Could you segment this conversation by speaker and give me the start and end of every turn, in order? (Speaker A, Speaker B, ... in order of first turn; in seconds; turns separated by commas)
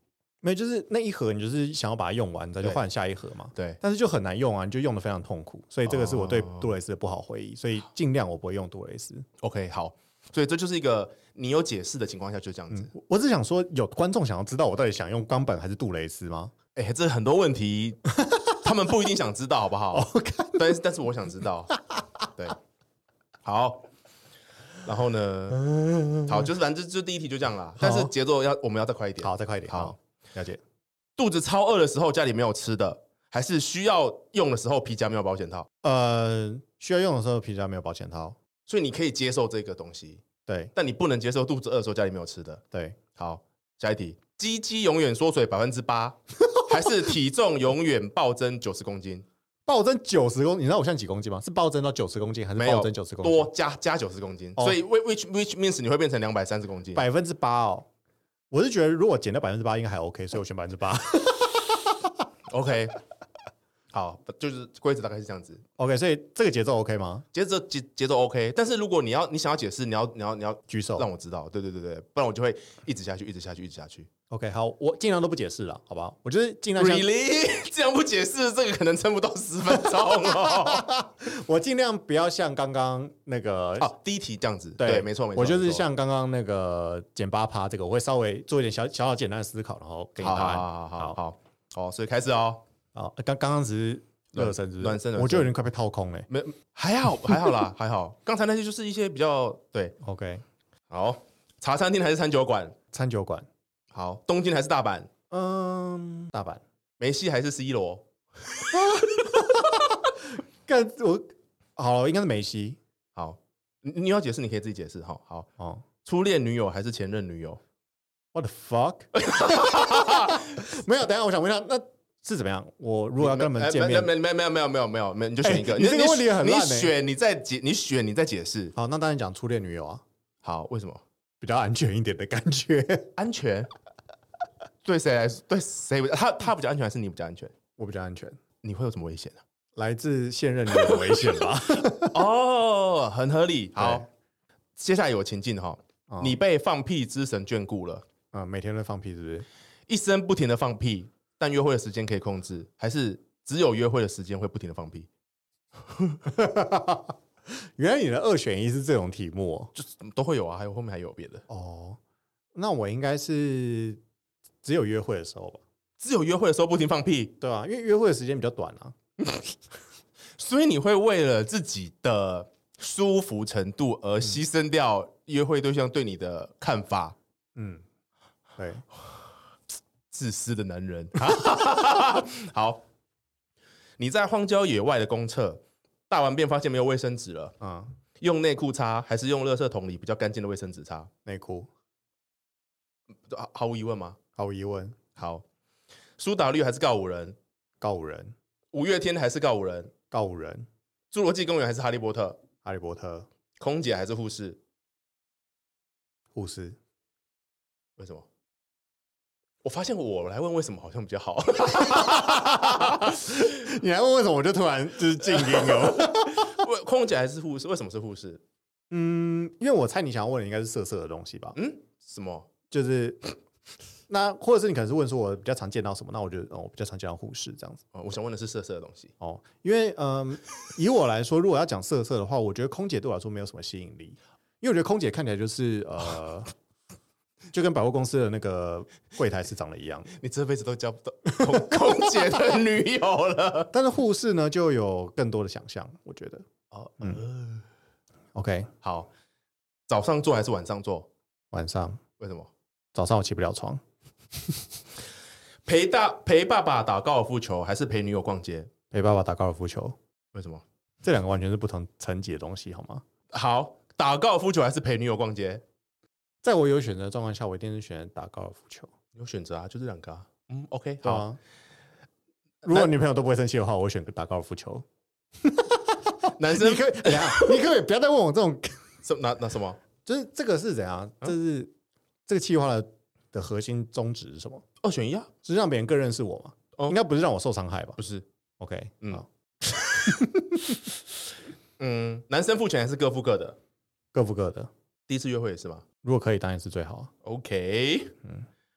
Speaker A: 0.4-9.2, Speaker B: 3.5-3.8, Speaker B: 5.8-6.7, Speaker B: 9.4-12.9, Speaker A: 12.7-16.5, Speaker B: 16.8-21.7, Speaker A: 19.9-20.8, Speaker B: 23.4-23.9, Speaker B: 24.8-25.6, Speaker A: 25.6-26.3, Speaker B: 26.2-29.9, Speaker A: 27.8-28.1, Speaker A: 29.2-30.6, Speaker B: 31.2-35.7, Speaker A: 35.8-38.4, Speaker B: 38.6-40.2, Speaker A: 40.5-40.7, Speaker B: 40.7-42.6, Speaker A: 42.7-43.0, Speaker B: 43.1-49.2, Speaker A: 49.6-53.5, Speaker B: 52.6-57.0, Speaker A: 56.9-57.9, Speaker A: 58.5-62.1, Speaker B: 62.5-63.0, Speaker B: 63.9-65.6, Speaker A: 65.8-67.2, Speaker B: 67.3-74.1, Speaker A: 70.7-71.1, Speaker A: 74.3-77.1, Speaker B: 76.8-80.8, Speaker A: 80.1-83.9, Speaker B: 83.8-85.8, Speaker A: 84.8-91.2, Speaker B: 90.2-92.6, Speaker A: 92.9-96.3, Speaker B: 94.3-95.5, Speaker B: 96.3-100.0, Speaker A: 100.0-100.4, Speaker B: 100.9-102.8, Speaker A: 102.9-103.5, Speaker B: 103.9-105.1, Speaker A: 105.3-106.6, Speaker B: 107.0-109.0, Speaker A: 108.7-109.8, Speaker A: 110.7-112.8, Speaker B: 113.1-115.5, Speaker A: 115.6-115.8, Speaker B: 116.0-117.6, Speaker A: 118.3-119.1, Speaker B: 119.1-120.4, Speaker A: 119.9-124.1, Speaker B: 123.2-128.7, Speaker A: 125.4-126.9, Speaker A: 128.7-130.0, Speaker B: 130.4-131.0, Speaker A: 131.4-133.1, Speaker B: 133.2-133.7, Speaker B: 134.8-137.5, Speaker A: 137.8-138.4, Speaker B: 138.6-139.4, Speaker A: 139.8-142.2, Speaker B: 142.1-144.0, Speaker A: 143.7-144.1, Speaker B: 144.8-148.0, Speaker A: 146.1-146.4, Speaker A: 148.3-149.4, Speaker B: 149.9-155.1, Speaker A: 156.3-157.1, Speaker A: 157.7-159.7, Speaker B: 159.7-161.4, Speaker A: 161.5-162.0, Speaker A: 162.5-164.0, Speaker A: 164.6-165.6, Speaker B: 166.0-167.3, Speaker A: 167.4-168.9, Speaker B: 170.4-177.1, Speaker A: 177.6-177.8, Speaker A: 178.6-178.8, Speaker B: 180.1-182.8, Speaker B: 184.0-187.6, Speaker A: 187.6-187.9, Speaker B: 188.2-191.1, Speaker A: 191.2-191.7, Speaker B: 193.3-194.2, Speaker A: 194.4-194.9, Speaker B: 195.2-195.4, Speaker B: 196.2-197.3, Speaker A: 197.8-198.3, Speaker B: 198.7-199.9, Speaker A: 200.1-200.7, Speaker B: 201.1-202.4, Speaker A: 202.6-203.3, Speaker B: 203.6-204.6, Speaker A: 206.3-206.8, Speaker B: 208.0-208.2, Speaker B: 209.6-213.1, Speaker A: 212.1-216.6, Speaker B: 215.4-218.4, Speaker A: 218.9-221.6, Speaker B: 221.5-222.5, Speaker A: 222.7-223.3, Speaker A: 224.1-227.8, Speaker B: 227.9-229.1, Speaker A: 229.2-236.5, Speaker A: 237.5-240.1, Speaker B: 240.1-243.7, Speaker A: 243.7-246.4, Speaker B: 246.7-247.6, Speaker A: 248.3-248.7, Speaker B: 248.8-249.1, Speaker B: 249.9-251.1, Speaker A: 251.5-252.0, Speaker B: 252.2-252.5, Speaker A: 252.9-253.8, Speaker B: 255.7-258.7, Speaker A: 258.9-259.9, Speaker B: 260.3-260.6, Speaker A: 261.0-263.0, Speaker B: 263.3-265.6, Speaker A: 266.4-268.9, Speaker B: 269.1-271.2, Speaker A: 271.0-271.4, Speaker A: 272.6-274.8, Speaker A: 275.4-278.8, Speaker B: 276.4-277.6, Speaker B: 279.0-279.8, Speaker A: 280.0-281.7, Speaker A: 282.3-284.6, Speaker B: 284.8-285.3, Speaker A: 285.4-288.0, Speaker B: 288.0-288.2, Speaker A: 288.6-289.2, Speaker A: 289.8-290.7, Speaker B: 291.8-293.6, Speaker A: 294.1-294.7, Speaker B: 295.1-295.8, Speaker A: 296.0-297.1, Speaker B: 297.2-298.1